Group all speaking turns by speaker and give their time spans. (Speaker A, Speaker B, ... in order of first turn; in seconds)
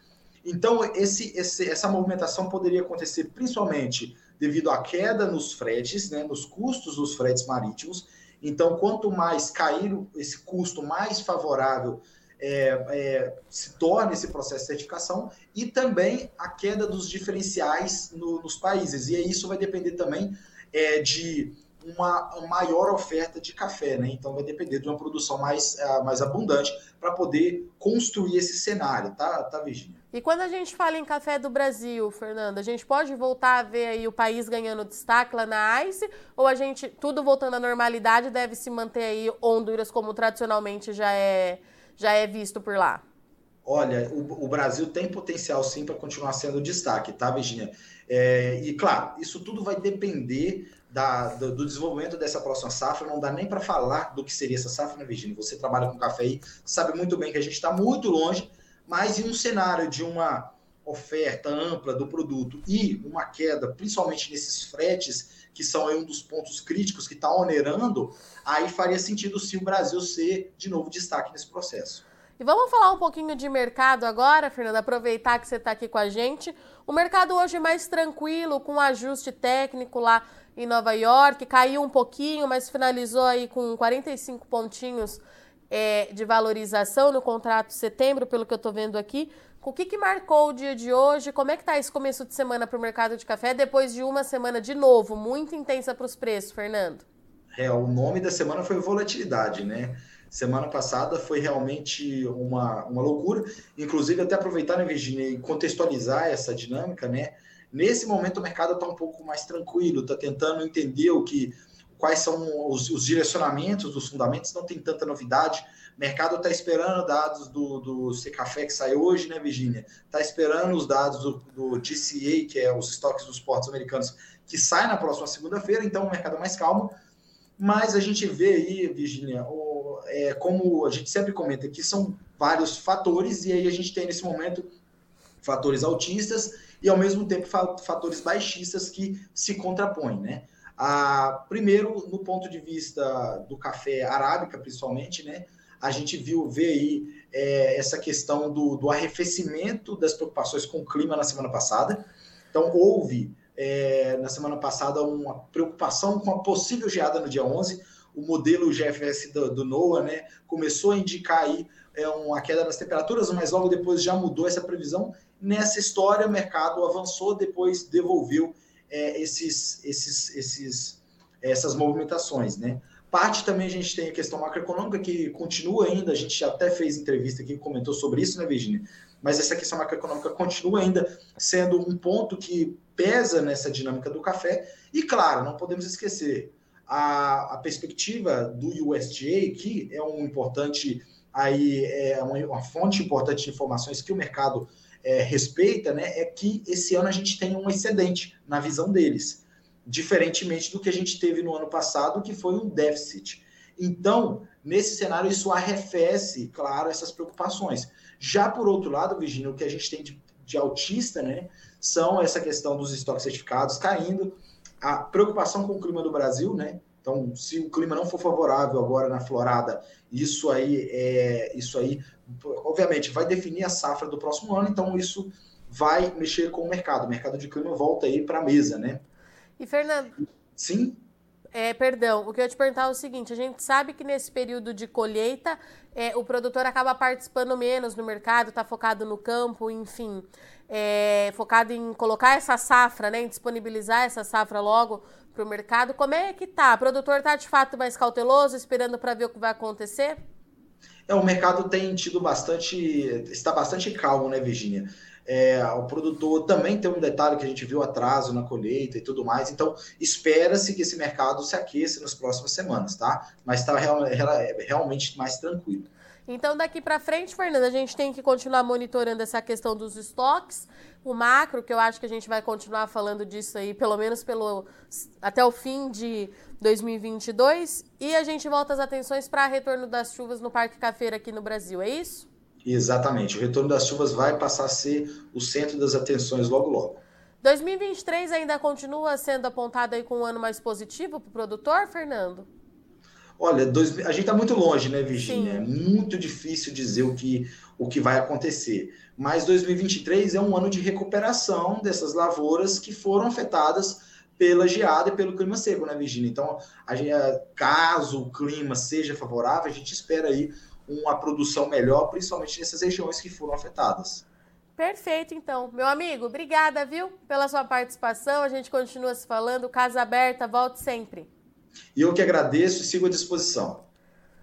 Speaker A: 0.4-30.0, 43.6-72.0, 97.5-127.0, 127.6-134.7, 135.4-229.0, 230.6-231.0, 251.1-265.9, 282.6-287.0, 293.4-314.2, 321.9-323.9
Speaker B: 30.1-43.0, 72.4-97.0, 229.6-230.2, 231.5-250.2, 266.3-282.3, 287.4-292.5, 295.1-295.7, 314.8-321.3